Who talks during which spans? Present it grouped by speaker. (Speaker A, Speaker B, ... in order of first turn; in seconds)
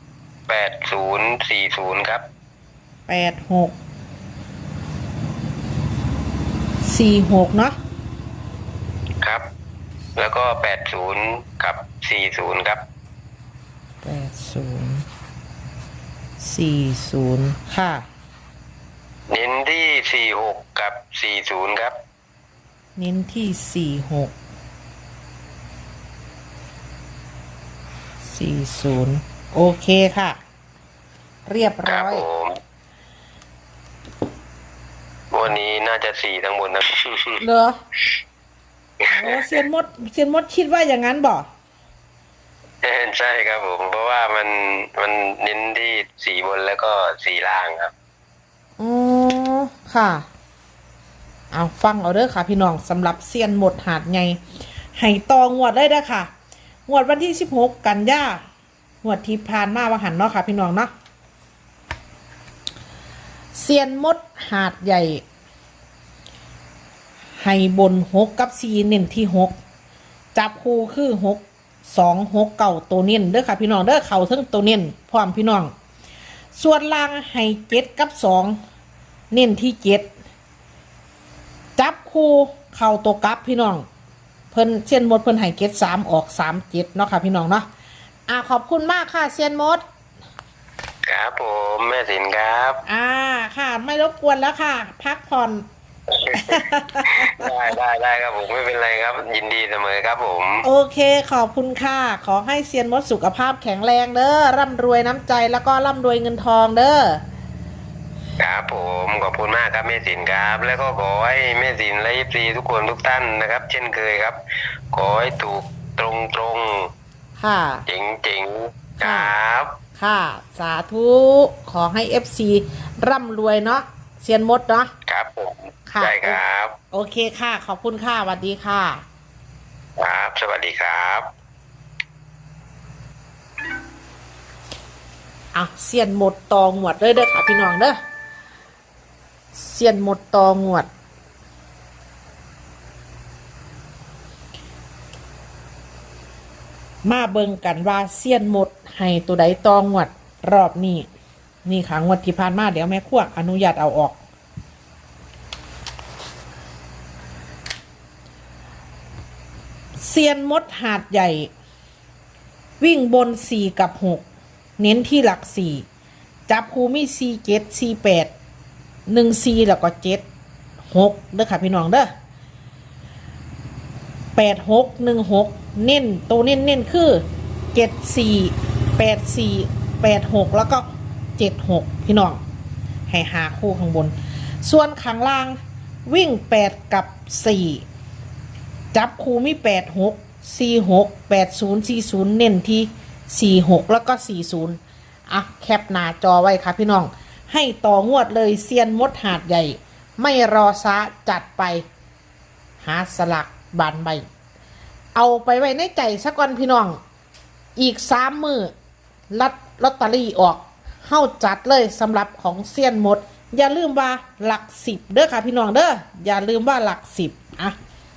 Speaker A: 0.5-2.2, 10.2-12.8, 19.3-22.0, 31.9-32.6, 35.3-37.4, 39.0-39.4, 42.8-47.9, 91.1-92.8, 96.1-100.7, 108.4-114.4, 114.9-116.9, 117.9-119.8, 125.1-126.8, 130.0-131.3
Speaker B: 3.1-3.7, 6.8-7.8, 14.0-15.0, 16.4-18.0, 23.0-24.3, 28.2-30.4, 31.5-32.2, 37.4-37.8, 39.1-41.5, 48.8-50.2, 51.5-54.4, 54.9-56.3, 56.9-58.4, 59.0-60.9, 63.5-65.2, 67.4-69.5, 70.3-75.7, 76.5-78.6, 79.3-80.1, 81.8-83.8, 84.5-87.7, 88.3-89.8, 92.8-95.6, 96.3-97.4, 100.6-107.2, 117.4-117.8, 119.0-119.3, 120.0-124.9, 125.9-126.4, 126.9-129.0, 135.5-138.0, 139.5-140.9, 147.0-151.1, 151.6-154.2, 160.0-161.5, 162.8-164.2, 164.8-165.8, 166.5-168.3, 169.1-170.2, 170.9-172.1, 174.3-177.2, 177.7-182.4, 183.1-187.8, 188.9-201.8, 202.8-204.2, 205.1-207.0, 207.8-208.7, 209.3-217.7